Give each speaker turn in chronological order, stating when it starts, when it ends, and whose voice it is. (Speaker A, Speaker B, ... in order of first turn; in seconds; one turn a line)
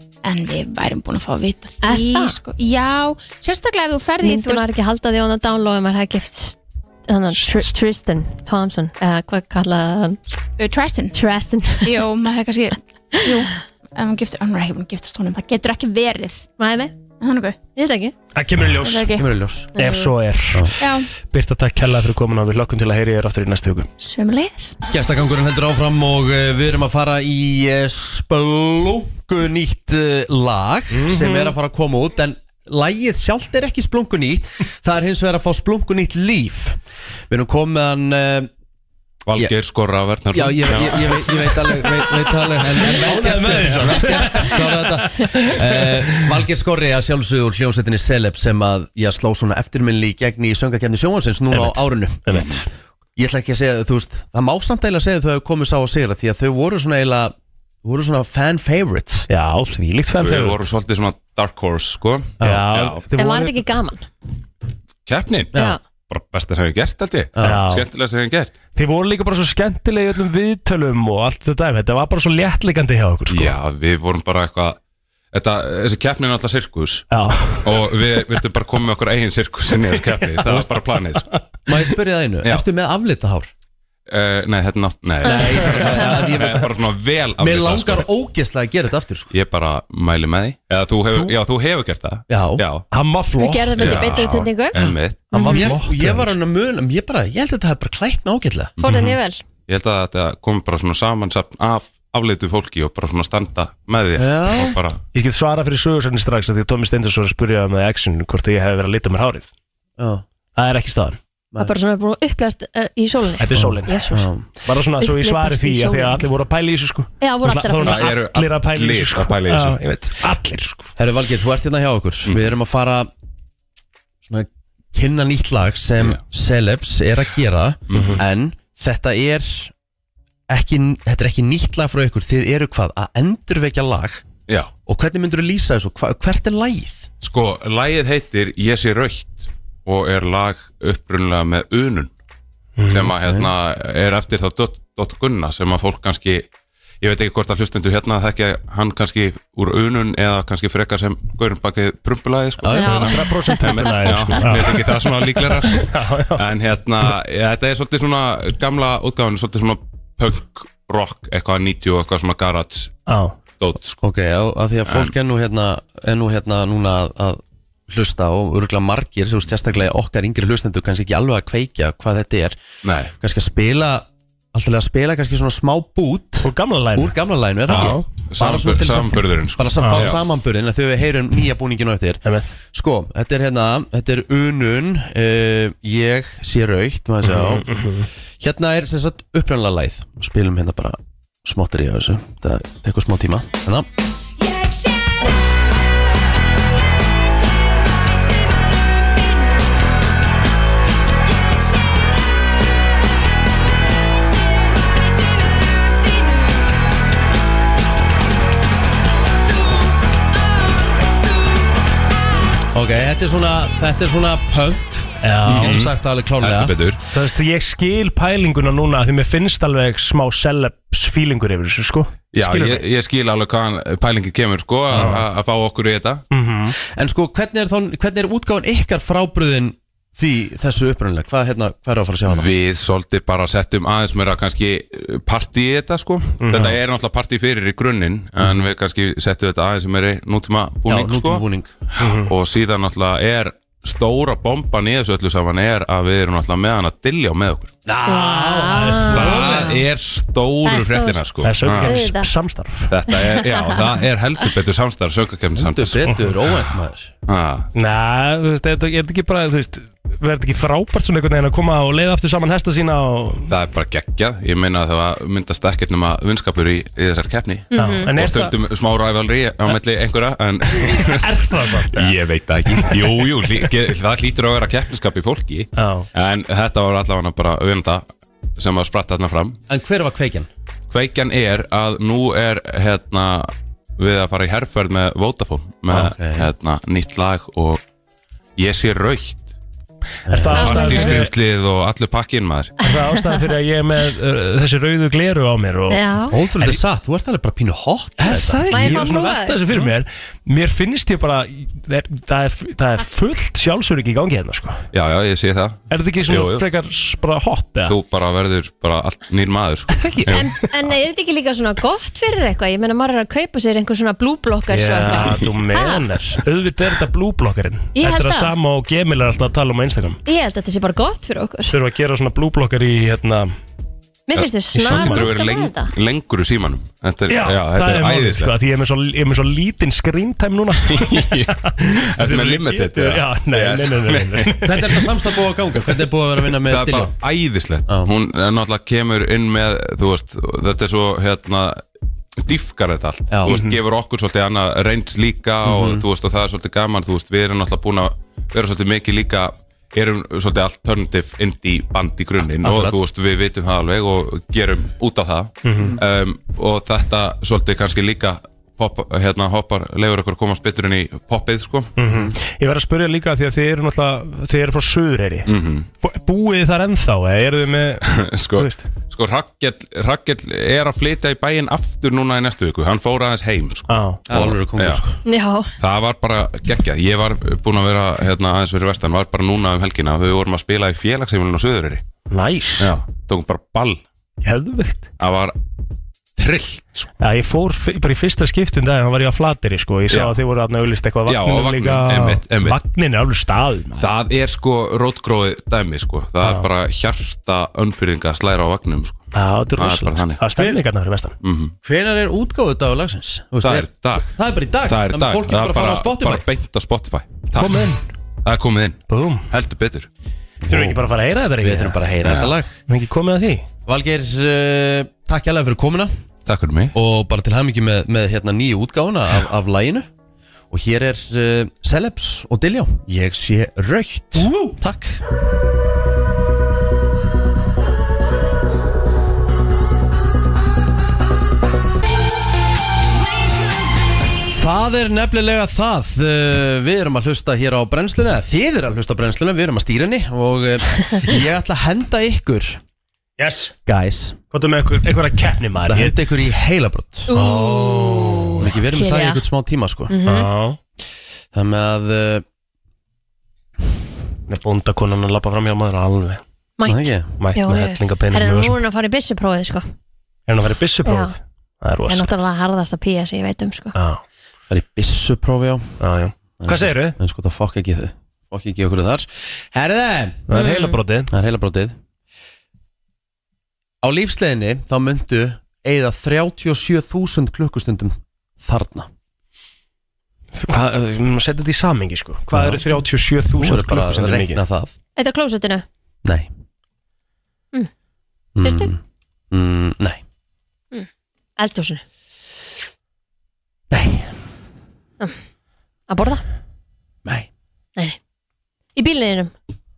Speaker A: 0.2-4.7
Speaker B: 1.8-2.4
Speaker B: 4.2-10.2
Speaker A: 10.6-11.2
Speaker B: 11.1-12.0
Speaker A: 11.8-16.5
Speaker B: 16.6-17.0
Speaker A: 17.2-17.6
Speaker B: 17.8-18.1
Speaker C: 18.4-19.2
Speaker A: 18.8-19.3
Speaker D: 19.2-19.7
Speaker B: 19.8-20.1
Speaker C: 19.8-23.9
Speaker A: 20.8-21.1
Speaker A: 24.0-24.8
Speaker D: 24.9-36.8
Speaker C: 30.9-31.6
Speaker D: 37.3-38.5
Speaker E: 39.3-41.6
Speaker D: 40.3-52.4
Speaker C: 42.1-46.4
Speaker C: 51.5-52.7
Speaker E: 52.3-52.6
Speaker D: 53.2-59.3
Speaker C: 59.3-60.7
Speaker E: 60.2-63.0
Speaker D: 62.4-62.7
Speaker C: 62.4-63.7
Speaker B: 63.2-64.1
Speaker E: 65.1-65.5
Speaker E: 66.1-68.6
Speaker D: 67.3-67.6
Speaker C: 67.4-67.9
Speaker C: 68.8-73.6
Speaker E: 73.3-74.8
Speaker E: 75.3-77.0
Speaker C: 77.1-78.3
Speaker E: 77.6-81.3
Speaker C: 79.8-80.6
Speaker C: 81.1-81.4
Speaker D: 81.7-83.5
Speaker E: 84.1-88.1
Speaker D: 85.2-86.7
Speaker D: 87.4-89.3
Speaker E: 89.3-92.9
Speaker D: 92.3-92.6
Speaker C: 92.9-94.5
Speaker B: 93.4-94.8
Speaker E: 93.8-95.3
Speaker D: 94.8-99.0
Speaker B: 95.3-95.7
Speaker C: 95.3-96.4
Speaker B: 98.8-99.4
Speaker E: 99.7-105.0
Speaker D: 104.2-104.8
Speaker C: 105.1-109.5
Speaker D: 110.0-110.2
Speaker C: 110.6-111.2
Speaker B: 111.6-114.3
Speaker C: 113.4-120.9
Speaker D: 113.6-114.5
Speaker B: 115.0-116.2
Speaker B: 117.2-118.2
Speaker E: 117.8-119.8
Speaker D: 121.0-123.1
Speaker D: 124.2-129.7
Speaker E: 127.9-128.2
Speaker C: 127.9-128.2
Speaker D: 130.5-134.2
Speaker D: 134.9-137.1
Speaker E: 137.2-142.1
Speaker C: 142.8-143.1
Speaker E: 142.9-146.5
Speaker D: 143.2-143.5
Speaker E: 147.0-163.0
Speaker D: 152.6-153.1
Speaker B: 152.7-154.4
Speaker C: 152.8-156.5
Speaker C: 163.1-163.4
Speaker E: 163.6-164.0
Speaker D: 164.0-172.6
Speaker E: 164.9-165.1
Speaker E: 172.8-173.1
Speaker D: 173.2-187.7
Speaker C: 176.4-177.2
Speaker C: 177.7-178.1
Speaker E: 177.7-180.2
Speaker C: 179.8-180.2
Speaker C: 182.2-182.5
Speaker C: 187.2-188.1
Speaker D: 188.4-193.9
Speaker D: 212.7-216.8
Speaker C: 215.2-215.9
Speaker E: 215.5-217.0
Speaker C: 217.1-222.8
Speaker E: 222.3-226.2
Speaker C: 224.9-225.2
Speaker C: 226.3-226.8
Speaker D: 226.9-232.5
Speaker E: 232.3-247.7
Speaker C: 236.4-236.8
Speaker D: 240.9-241.7
Speaker C: 242.0-242.3
Speaker D: 247.9-249.8
Speaker B: 248.1-249.8
Speaker E: 249.1-252.0
Speaker B: 250.6-252.3
Speaker C: 251.4-253.0
Speaker E: 252.9-257.7
Speaker B: 253.1-253.9
Speaker D: 255.6-257.1
Speaker C: 256.1-256.3
Speaker C: 257.7-263.5
Speaker E: 263.5-278.1
Speaker B: 267.7-268.1
Speaker C: 267.8-268.6
Speaker C: 270.7-273.7
Speaker C: 275.8-276.1
Speaker E: 278.6-279.6
Speaker D: 279.7-280.5
Speaker E: 280.9-287.8
Speaker D: 285.9-286.5
Speaker E: 288.6-289.5
Speaker D: 290.3-290.8
Speaker C: 290.3-291.3
Speaker E: 290.5-292.8
Speaker B: 290.6-291.2
Speaker C: 292.8-296.0
Speaker B: 295.9-296.4
Speaker D: 296.3-299.1
Speaker C: 296.6-296.8
Speaker C: 298.2-304.8
Speaker B: 298.7-299.6
Speaker E: 304.9-306.6
Speaker C: 305.9-308.0
Speaker E: 307.9-310.5
Speaker C: 309.9-310.6
Speaker B: 310.3-316.0
Speaker C: 314.7-320.2
Speaker B: 317.9-318.5
Speaker B: 320.3-321.8
Speaker C: 321.7-323.5
Speaker B: 324.3-325.9
Speaker E: 324.4-328.6
Speaker C: 324.7-325.3
Speaker C: 327.3-335.1
Speaker E: 330.9-334.5
Speaker D: 334.6-337.1
Speaker E: 336.6-341.8
Speaker E: 342.4-361.9
Speaker D: 343.3-343.6
Speaker C: 343.5-343.8
Speaker D: 345.7-346.0
Speaker D: 352.6-353.0
Speaker C: 355.6-356.0
Speaker C: 362.0-365.5
Speaker D: 362.1-362.4
Speaker E: 365.5-365.9
Speaker C: 366.0-368.9
Speaker E: 368.1-375.0
Speaker C: 373.9-374.2
Speaker D: 374.3-375.2
Speaker B: 375.3-375.7
Speaker E: 375.8-382.0
Speaker C: 382.3-382.9
Speaker E: 382.8-384.0
Speaker C: 384.4-385.1
Speaker E: 385.2-385.6
Speaker E: 386.4-387.1
Speaker C: 387.2-394.1
Speaker E: 390.1-390.4
Speaker E: 391.3-392.8
Speaker E: 394.0-399.2
Speaker C: 396.4-396.7
Speaker C: 399.3-401.4
Speaker E: 399.8-400.4
Speaker E: 401.4-401.7
Speaker D: 401.8-406.4
Speaker E: 403.6-410.1
Speaker C: 407.6-408.0
Speaker C: 409.1-409.5
Speaker D: 410.6-411.0
Speaker C: 410.7-412.0
Speaker D: 411.6-412.8
Speaker E: 412.2-412.6
Speaker C: 412.9-413.7
Speaker D: 413.9-416.1
Speaker E: 416.5-416.9
Speaker D: 416.9-420.1
Speaker D: 420.7-425.2
Speaker C: 424.4-424.8
Speaker D: 434.5-442.8
Speaker C: 443.4-443.7
Speaker D: 443.9-444.4
Speaker C: 444.5-446.2
Speaker D: 445.9-447.3
Speaker B: 447.3-449.4
Speaker C: 447.3-448.7
Speaker D: 448.6-450.1
Speaker B: 450.1-450.5
Speaker C: 450.2-450.8
Speaker D: 451.5-452.4
Speaker C: 454.5-456.4
Speaker B: 456.8-459.9
Speaker D: 456.9-457.3
Speaker C: 457.4-458.8
Speaker C: 460.5-462.4
Speaker B: 461.1-461.4
Speaker B: 462.1-463.9
Speaker C: 463.9-464.2
Speaker D: 464.7-466.0
Speaker C: 466.0-467.2
Speaker D: 466.6-470.5
Speaker C: 470.5-471.3
Speaker B: 470.5-470.9
Speaker D: 471.3-472.0
Speaker D: 474.0-479.1
Speaker C: 480.5-484.6
Speaker D: 482.5-482.9
Speaker D: 483.6-484.9
Speaker B: 485.2-485.9
Speaker D: 488.6-489.0
Speaker B: 488.6-488.9
Speaker D: 489.5-490.2
Speaker B: 491.6-492.0
Speaker D: 493.9-494.3
Speaker B: 496.1-496.4
Speaker B: 499.0-499.5